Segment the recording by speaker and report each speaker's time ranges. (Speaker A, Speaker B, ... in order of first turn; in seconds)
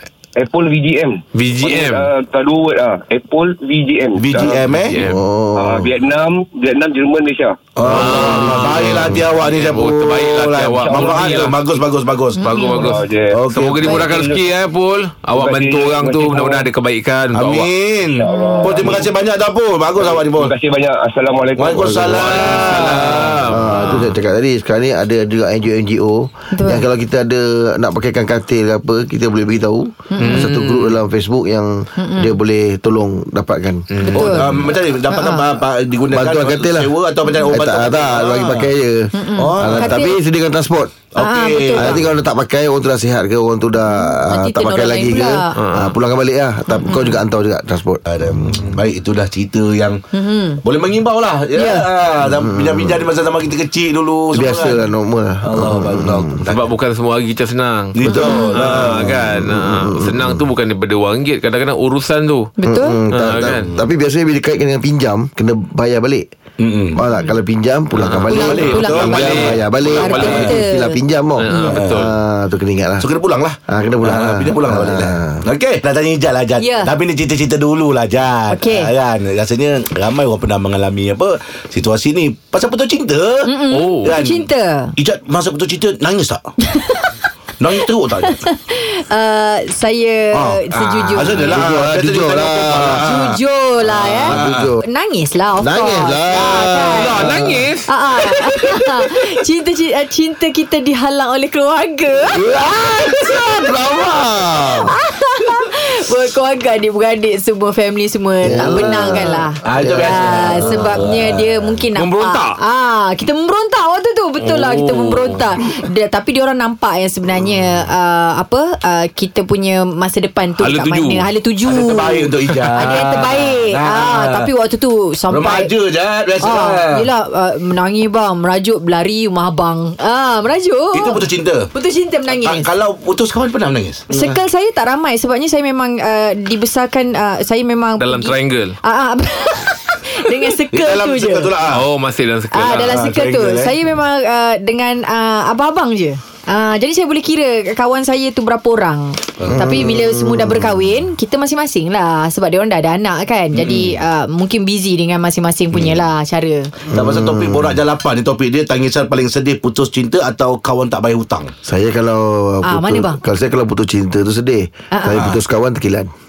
Speaker A: 0.4-4.6, 5.5-7.6, 10.8-11.3, 12.7-13.4, 13.9-14.4, 15.3-16.6, 18.2-19.1, 20.0-22.5
Speaker B: 1.3-2.1, 4.9-5.2, 7.9-11.6, 12.7-12.9, 13.5-17.7, 22.0-24.1, 30.2-31.0, 33.9-34.6, 45.5-46.0, 56.5-62.5, 63.1-63.7, 68.0-70.5, 71.4-72.1, 83.7-84.1, 96.9-97.9, 112.0-112.5, 114.4-115.4, 120.6-121.2, 122.5-123.0, 138.0-138.8, 141.7-142.9
Speaker C: 4.2-4.9, 7.8-14.0, 17.3-20.5, 21.6-23.6, 34.1-38.7, 39.4-40.0, 41.1-42.1, 48.1-50.0, 50.6-54.8, 55.4-56.7, 58.0-59.2, 63.5-63.8, 66.6-67.0, 68.3-70.5, 71.7-72.0, 73.0-86.4, 87.6-88.4, 90.3-93.4, 94.0-94.7, 108.6-111.8, 121.6-124.5, 125.3-127.1, 130.9-131.7, 132.3-134.4, 140.7-141.8, 142.7-143.7, 149.4-149.7, 153.6-153.9, 156.9-161.5, 165.1-165.4
Speaker D: 5.0-5.9, 7.9-9.2, 21.8-22.4, 23.4-33.9, 36.1-40.9, 41.8-48.8, 52.2-53.0, 54.3-56.4, 58.8-60.4, 62.7-66.2, 66.9-73.1, 73.7-75.4, 91.5-93.0, 94.2-94.8, 95.6-97.7, 102.3-104.9, 108.4-110.9, 149.5-150.8, 156.9-157.8, 161.6-166.1
Speaker E: 12.4-12.9, 18.2-18.9, 26.5-26.8, 30.1-30.5, 32.0-32.4, 34.1-34.5, 35.1-35.5, 39.1-40.2, 41.2-42.0, 43.9-45.5, 46.7-47.2, 50.1-50.6, 51.5-51.9, 58.1-58.6, 62.6-63.0, 68.3-69.4, 70.0-71.0, 71.5-71.8, 76.6-76.9, 78.5-78.9, 83.4-84.9, 86.6-87.1, 88.2-91.6, 92.9-97.2, 97.9-103.7, 104.8-125.7, 126.4-132.7, 134.1-141.5, 142.5-156.7, 162.7-163.2, 164.9-165.3